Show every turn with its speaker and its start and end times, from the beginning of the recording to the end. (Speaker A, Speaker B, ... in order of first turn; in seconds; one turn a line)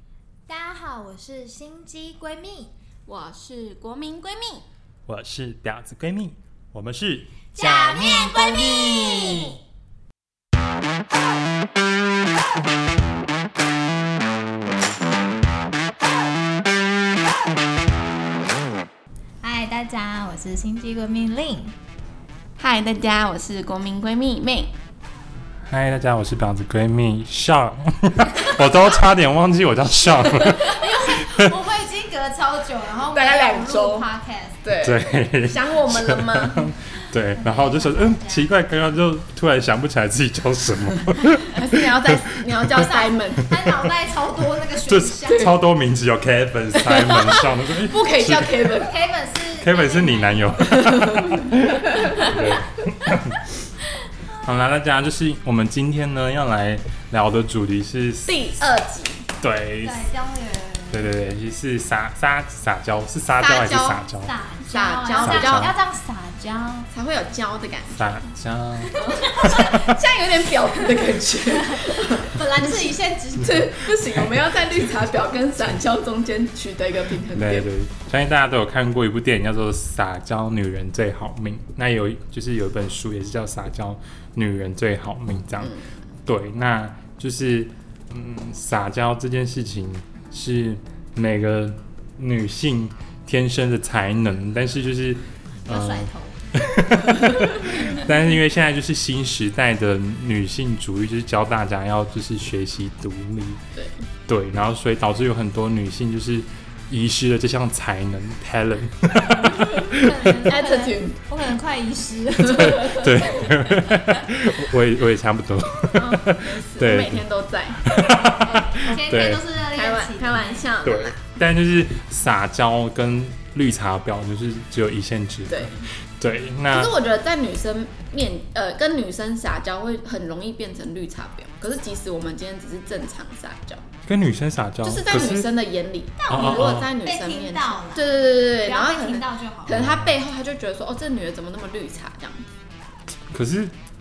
Speaker A: 0.5-2.7
Speaker B: 3.1-4.6
Speaker C: 5.0-9.4
Speaker A: 7.5-9.6
Speaker A: 19.4-21.7
Speaker B: 22.6-24.7
Speaker C: 25.7-31.5
Speaker A: 30.6-34.6
Speaker B: 33.1-34.1
Speaker B: 34.6-36.7
Speaker C: 34.8-41.8
Speaker A: 37.0-38.5
Speaker B: 41.5-43.5
Speaker A: 42.7-45.5
Speaker C: 44.9-48.7
Speaker B: 45.3-45.5
Speaker B: 46.8-48.9
Speaker A: 48.8-50.6
Speaker C: 49.6-53.4
Speaker B: 50.6-52.5
Speaker C: 54.4-58.4
Speaker B: 58.2-59.3
Speaker C: 59.4-60.1
Speaker A: 59.8-61.1
Speaker C: 60.9-64.3
Speaker B: 63.4-64.0
Speaker A: 64.2-66.9
Speaker B: 64.7-65.7
Speaker C: 65.2-65.7
Speaker B: 66.9-68.2
Speaker C: 67.9-68.9
Speaker A: 68.8-69.9
Speaker B: 68.9-72.8
Speaker A: 70.8-73.8
Speaker B: 73.4-77.7
Speaker C: 77.3-103.6
Speaker B: 85.6-85.9
Speaker A: 95.7-96.6
Speaker A: 97.7-98.0
Speaker B: 103.8-104.0
Speaker C: 104.3-110.4
Speaker A: 109.5-113.5
Speaker B: 110.5-111.2
Speaker B: 112.5-113.1
Speaker C: 112.5-117.2
Speaker B: 115.9-117.9
Speaker C: 117.8-119.4
Speaker A: 118.7-120.7
Speaker B: 118.8-121.2
Speaker C: 120.8-126.9
Speaker B: 125.5-125.8
Speaker B: 126.7-133.8
Speaker C: 134.1-135.5
Speaker B: 134.8-142.4
Speaker A: 136.2-139.9
Speaker C: 136.3-136.9
Speaker C: 139.8-140.1
Speaker C: 143.3-143.7